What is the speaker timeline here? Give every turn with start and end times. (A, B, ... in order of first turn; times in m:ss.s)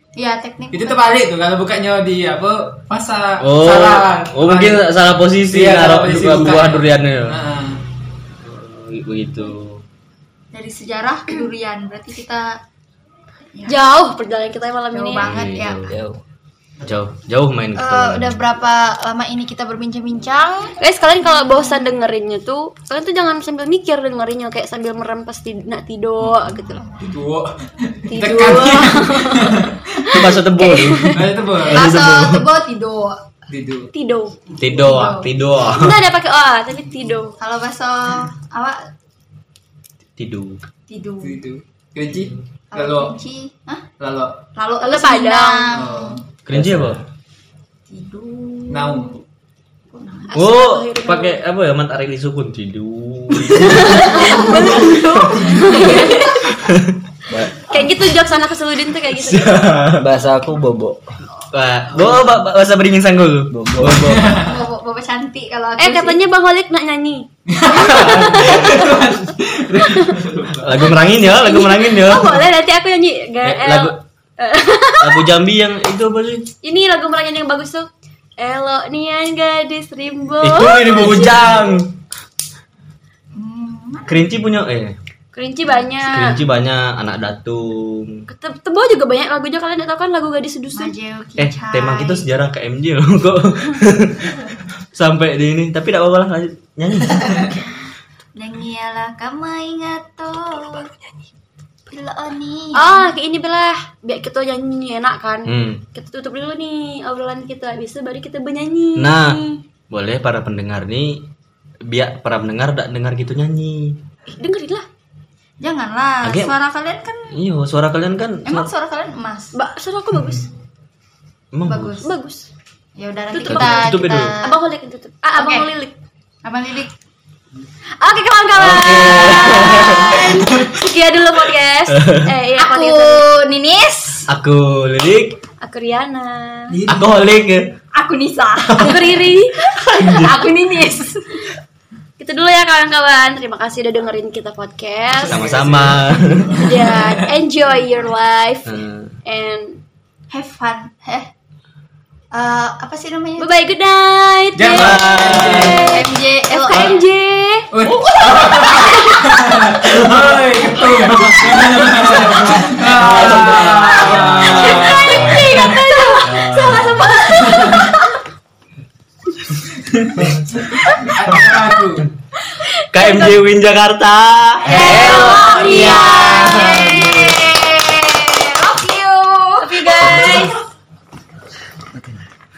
0:00.2-0:01.0 A
0:00.7-0:04.9 B
0:03.4-0:07.4 C
0:05.5-0:07.8 B
0:08.4-0:09.8 C
0:10.5-0:12.6 A
0:13.5-0:13.8 A
0:13.7-0:15.3 D
0:14.9-0:15.9 A
0:15.2-0:16.2 C
0:16.8-0:18.4 C
0:17.8-0:20.8 A
0:20.8-0:26.9 D
0:21.4-0:21.8 A
0:27.0-0:29.9 B
0:28.1-0:31.3 D
0:30.1-0:32.5 C
0:31.1-0:31.8 B
0:31.7-0:33.2 A
0:33.5-0:33.9 B
0:33.9-0:34.4 D
0:34.6-0:36.0 C
0:34.6-0:35.3 A
0:35.6-0:37.4 D
0:37.4-0:38.8 A
0:40.2-0:40.6 C
0:40.9-0:41.4 A
0:41.2-0:43.1 B
0:42.7-0:43.8 A
0:44.0-0:44.4 B
0:44.5-0:46.2 A
0:44.8-0:45.7 D
0:45.7-0:46.2 B
0:46.5-0:47.0 C
0:46.5-0:46.8 E
0:47.9-0:49.2 A
0:48.7-0:49.2 B
0:49.9-0:50.4 A
0:50.3-0:51.4 D
0:50.3-0:55.1 C
0:53.5-0:56.5 D
0:54.2-0:54.6 A
0:55.3-0:56.5 A
0:56.6-0:57.4 C
0:57.7-0:59.7 D
0:59.1-1:00.2 C
0:59.9-1:01.0 E
1:01.5-1:04.4 C
1:03.5-1:04.2 E
1:04.1-1:04.5 B
1:04.3-1:06.2 A
1:05.8-1:08.9 D
1:07.5-1:10.8 B
1:09.8-1:10.1 D
1:10.6-1:12.5 C
1:11.0-1:15.3 D
1:13.4-1:14.0 C
1:15.0-1:16.5 C
1:16.6-1:17.9 D
1:18.4-1:21.6 D
1:20.4-1:22.0 C
1:23.3-1:24.2 A
1:24.0-1:25.0 C
1:25.3-1:26.4 D
1:26.0-1:28.2 C
1:28.3-1:30.9 D
1:30.7-1:32.3 A
1:31.4-1:37.6 C
1:38.4-1:40.9 A
1:41.9-1:43.1 A
1:42.7-1:49.6 D
1:45.4-1:45.8 C
1:48.9-1:51.3 C
1:51.8-1:54.0 C
1:54.4-1:54.8 D
1:55.6-1:57.4 A
1:56.2-1:56.5 C
1:57.3-1:58.7 C
1:58.4-1:59.5 A
1:59.5-2:00.5 D
2:01.5-2:02.0 C
2:01.7-2:02.1 A
2:02.0-2:02.5 D
2:03.0-2:04.6 A
2:03.3-2:05.9 D
2:03.4-2:04.4 C
2:05.3-2:05.7 A
2:06.4-2:06.9 A
2:08.0-2:13.2 D
2:08.5-2:10.6 C
2:11.9-2:12.3 C
2:12.6-2:14.3 A
2:14.3-2:15.4 C
2:15.6-2:16.8 D
2:16.8-2:17.7 C
2:17.9-2:21.4 A
2:18.8-2:20.1 D
2:19.9-2:20.4 C
2:22.2-2:25.4 D
2:25.2-2:27.2 B
2:25.2-2:26.6 C
2:26.6-2:29.8 D
2:28.6-2:29.2 C
2:30.3-2:31.3 A
2:32.3-2:33.5 A
2:33.4-2:37.7 D
2:34.5-2:35.8 B
2:34.7-2:35.9 C
2:35.8-2:37.0 A
2:37.7-2:45.8 B
2:38.6-2:39.6 D
2:43.0-2:45.4 C
2:44.0-2:48.2 D
2:46.2-2:47.2 C
2:46.5-2:46.8 E
2:47.2-2:47.9 B
2:50.5-2:52.1 B
2:52.7-2:53.4 D
2:52.9-2:57.4 C
2:54.7-2:57.0 D
2:54.7-3:00.6 A
2:59.6-3:00.6 D